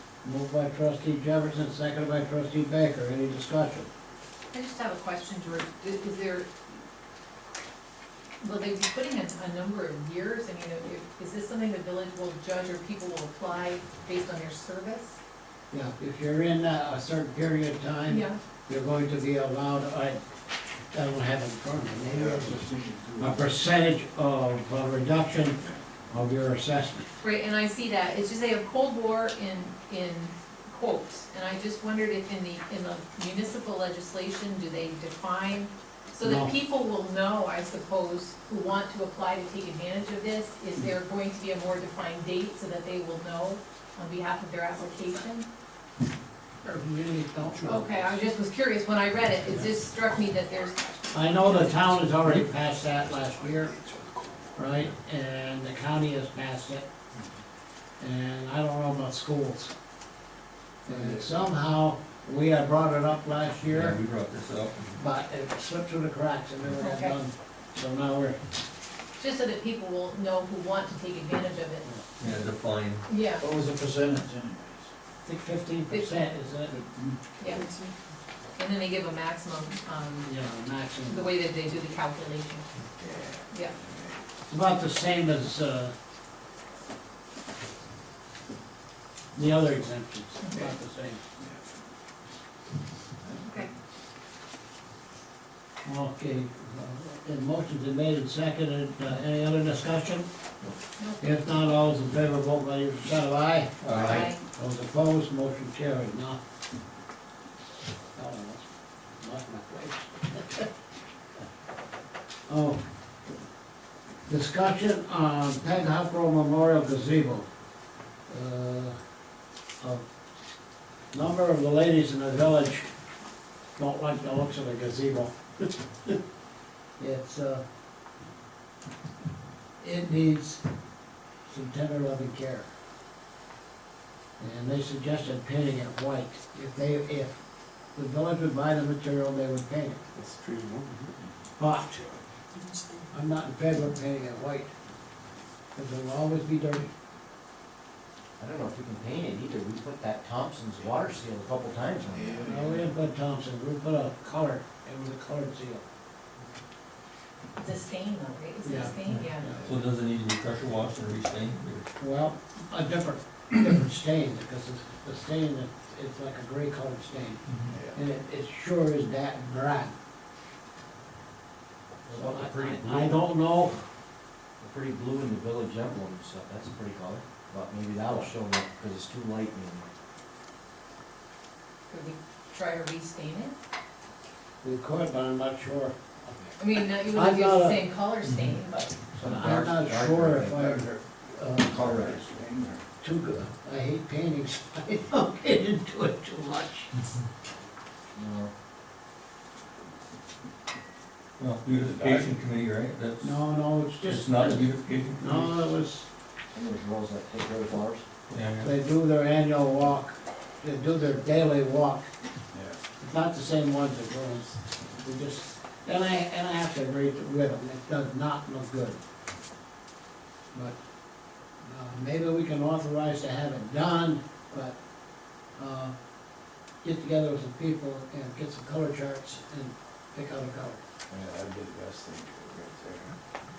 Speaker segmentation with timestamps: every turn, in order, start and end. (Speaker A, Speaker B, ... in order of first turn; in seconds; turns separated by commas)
Speaker A: 0.2-3.9, Speaker B: 4.5-6.5, Speaker B: 8.4-15.2, Speaker A: 15.7-20.2, Speaker B: 18.1-18.4, Speaker A: 20.9-27.1, Speaker C: 22.1-23.3, Speaker B: 27.2-45.5, Speaker A: 36.2-36.5, Speaker A: 46.6-48.0, Speaker B: 47.6-51.7, Speaker A: 51.1-53.7, Speaker C: 53.2-54.6, Speaker A: 54.5-56.9, Speaker A: 58.0-59.7, Speaker A: 60.9-64.0, Speaker C: 60.9-61.4, Speaker D: 63.7-65.0, Speaker A: 65.0-68.4, Speaker B: 66.8-67.2, Speaker B: 69.2-71.8, Speaker D: 72.2-73.0, Speaker B: 73.1-73.4, Speaker C: 73.4-74.9, Speaker A: 75.2-76.8, Speaker B: 75.9-76.2, Speaker C: 76.9-77.2, Speaker B: 77.4-77.8, Speaker B: 78.5-80.3, Speaker A: 80.2-81.3, Speaker B: 81.0-82.7, Speaker C: 83.0-84.2, Speaker A: 84.5-85.9, Speaker A: 89.3-91.2, Speaker B: 90.4-90.7, Speaker C: 91.4-91.7, Speaker B: 93.4-93.7, Speaker A: 95.8-100.2, Speaker B: 101.0-101.2, Speaker A: 101.2-106.4, Speaker D: 103.8-104.2, Speaker B: 103.9-104.4, Speaker A: 108.1-108.7, Speaker A: 109.2-110.6, Speaker A: 112.5-112.8, Speaker A: 114.3-117.5, Speaker A: 118.3-118.9, Speaker A: 119.8-120.0, Speaker A: 121.1-122.9, Speaker A: 123.8-126.2, Speaker A: 127.0-127.6, Speaker A: 129.8-130.6, Speaker A: 131.5-132.7, Speaker A: 134.4-137.4, Speaker A: 137.9-140.1, Speaker C: 140.1-141.3, Speaker A: 141.6-142.1, Speaker A: 143.1-144.7, Speaker A: 145.7-146.9, Speaker E: 148.4-152.6, Speaker C: 152.1-152.8, Speaker A: 152.4-155.8, Speaker B: 157.6-159.5, Speaker A: 158.6-159.6, Speaker D: 159.1-161.9, Speaker A: 162.0-167.4, Speaker C: 167.7-168.0, Speaker A: 167.9-169.9, Speaker A: 172.0-173.8, Speaker E: 172.1-173.2, Speaker E: 174.6-179.8, Speaker B: 181.9-183.5, Speaker A: 184.6-187.8, Speaker B: 186.6-188.9, Speaker D: 188.3-188.5, Speaker E: 189.2-190.8, Speaker A: 189.2-191.9, Speaker E: 191.6-192.2, Speaker C: 191.8-192.8, Speaker A: 193.0-196.9, Speaker E: 198.1-198.5, Speaker D: 201.4-203.4, Speaker C: 201.9-202.3, Speaker A: 203.2-206.1, Speaker D: 204.0-205.5, Speaker E: 206.5-208.0, Speaker D: 208.3-208.7, Speaker A: 208.6-212.1, Speaker C: 212.5-212.8, Speaker A: 213.0-219.0, Speaker A: 221.6-224.8, Speaker A: 225.6-225.9, Speaker A: 226.8-230.8, Speaker C: 231.1-233.2